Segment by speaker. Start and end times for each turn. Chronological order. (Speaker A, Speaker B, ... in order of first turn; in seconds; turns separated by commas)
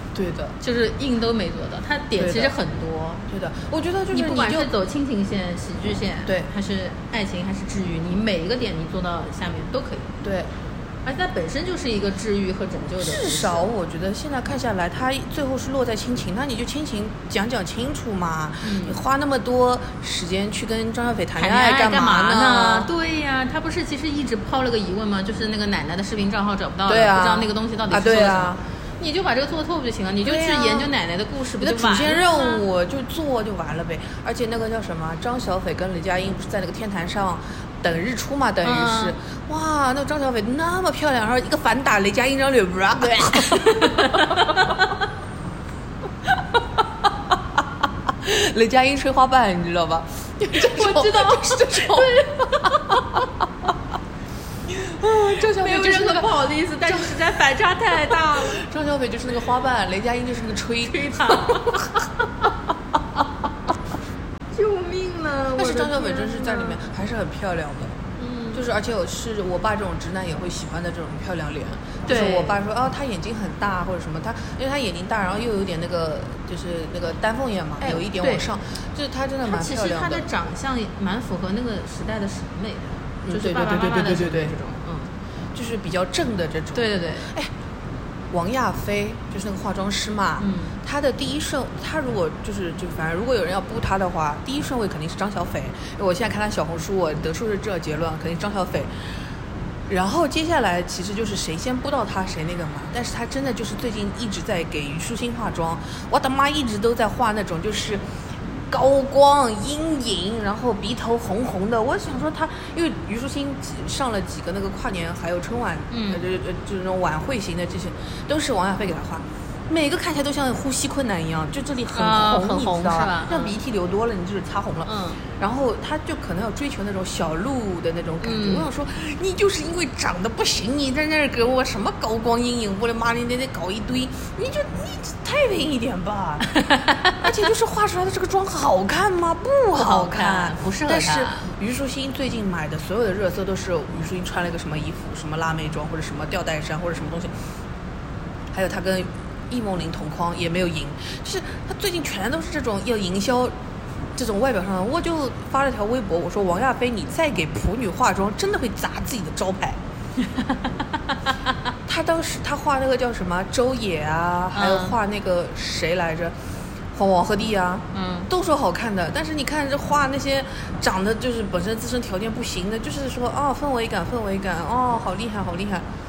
Speaker A: 0.1-0.6, Speaker B: 0.6-3.2, Speaker A: 2.2-2.5, Speaker A: 3.3-4.7, Speaker B: 4.1-10.2, Speaker A: 10.2-10.5, Speaker B: 11.0-13.7, Speaker A: 13.0-22.9, Speaker B: 18.6-19.0, Speaker B: 21.4-32.6, Speaker A: 26.9-28.6, Speaker A: 30.2-30.9, Speaker A: 31.6-44.4, Speaker B: 38.6-39.1, Speaker B: 43.0-44.8, Speaker A: 48.1-52.1, Speaker B: 50.4-53.2, Speaker A: 54.7-57.2, Speaker B: 55.3-58.7, Speaker A: 57.9-61.9, Speaker B: 60.9-62.4, Speaker B: 64.5-66.8, Speaker A: 65.5-68.0, Speaker B: 68.2-68.6, Speaker A: 68.5-80.2, Speaker B: 72.0-72.6, Speaker B: 77.8-78.5, Speaker B: 79.5-85.1, Speaker A: 83.2-84.6, Speaker A: 85.5-87.5, Speaker B: 86.7-87.3, Speaker A: 88.3-99.2, Speaker B: 90.4-90.8, Speaker A: 99.9-108.0, Speaker A: 108.7-136.5, Speaker B: 115.9-116.3, Speaker B: 121.9-123.6, Speaker B: 124.9-125.2, Speaker B: 128.2-128.7, Speaker B: 136.5-137.2, Speaker A: 137.2-147.3, Speaker B: 139.7-141.5, Speaker A: 148.5-153.5, Speaker A: 154.1-159.8, Speaker A: 161.8-166.4, Speaker B: 164.5-165.0, Speaker A: 166.9-175.8, Speaker B: 167.9-168.3